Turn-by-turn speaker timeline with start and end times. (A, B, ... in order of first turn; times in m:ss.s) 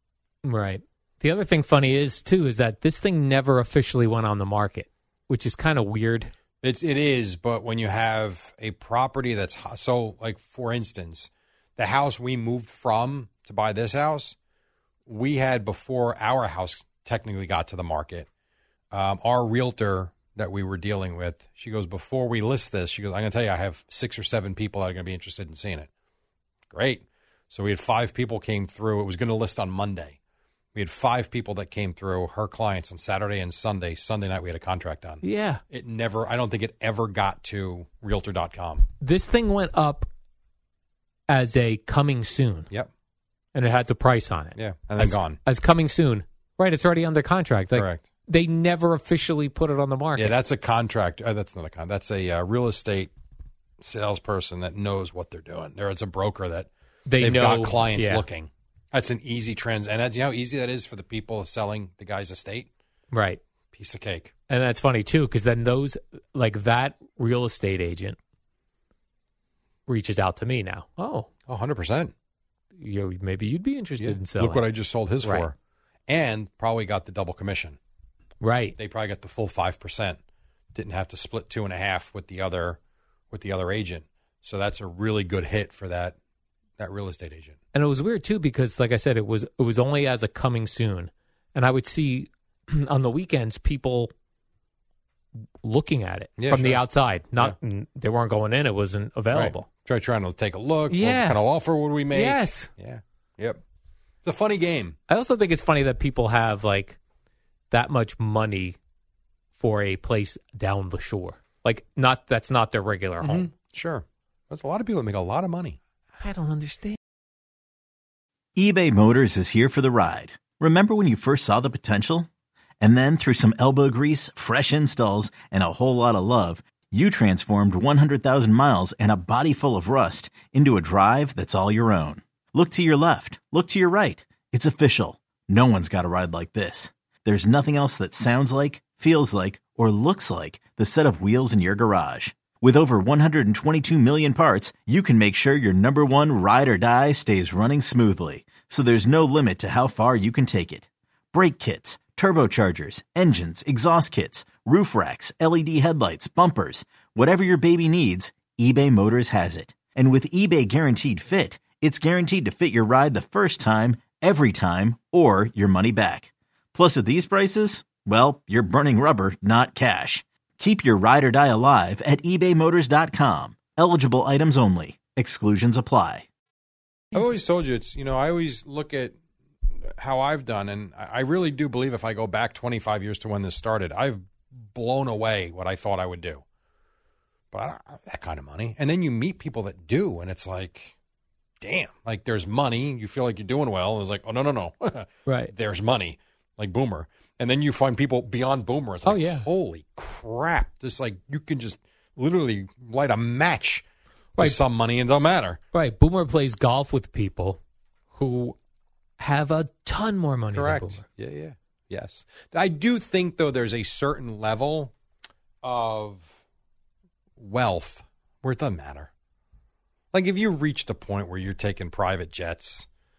0:00.4-0:06.3 A
0:06.6-0:14.4 B
0:15.1-0:18.3 B
0:18.9-0:25.9 B
0:26.7-0:30.2 B
0:30.8-0:38.8 B
0:35.2-0:35.6 A
0:39.0-0:40.1 A
0:41.3-0:42.7 A
0:43.5-0:50.4 A
0:44.6-0:45.4 B
0:47.8-0:48.0 B
0:50.2-0:53.1 B
0:53.8-0:56.7 B
0:57.1-0:58.2 A
0:57.2-1:02.7 B
1:03.1-1:03.4 A
1:03.7-1:04.3 B
1:04.5-1:08.2 A
1:09.9-1:11.3 A
1:11.5-1:12.1 B
1:12.8-1:14.6 A
1:14.0-1:15.5 B
1:16.1-1:17.8 B
1:18.4-1:18.8 A
1:18.8-1:20.2 B
1:20.7-1:22.8 B
1:23.3-1:26.2 B
1:26.8-1:27.6 B
1:27.7-1:34.1 A
1:35.6-1:39.7 A
1:36.4-1:36.8 B
1:39.3-1:43.6 B
1:40.9-1:41.4 A
1:42.1-1:42.7 A
1:44.2-1:45.0 B
1:45.1-1:47.0 A
1:47.7-1:48.8 A
1:49.6-1:53.5 A
1:53.2-1:55.8 B
1:56.2-1:57.0 A
1:58.6-2:02.3 C
2:02.8-2:56.3 C
2:57.1-2:59.2 B
2:59.8-3:06.4 B
3:07.5-3:10.9 B
3:11.6-3:23.8 B
3:15.3-3:15.5 A
3:19.0-3:19.5 A
3:24.4-3:25.6 B
3:25.7-3:27.6 A
3:28.1-3:28.6 A
3:29.2-3:31.0 A
3:30.5-3:34.9 B
3:35.6-3:36.3 B
3:37.4-3:39.1 B
3:40.1-3:42.9 B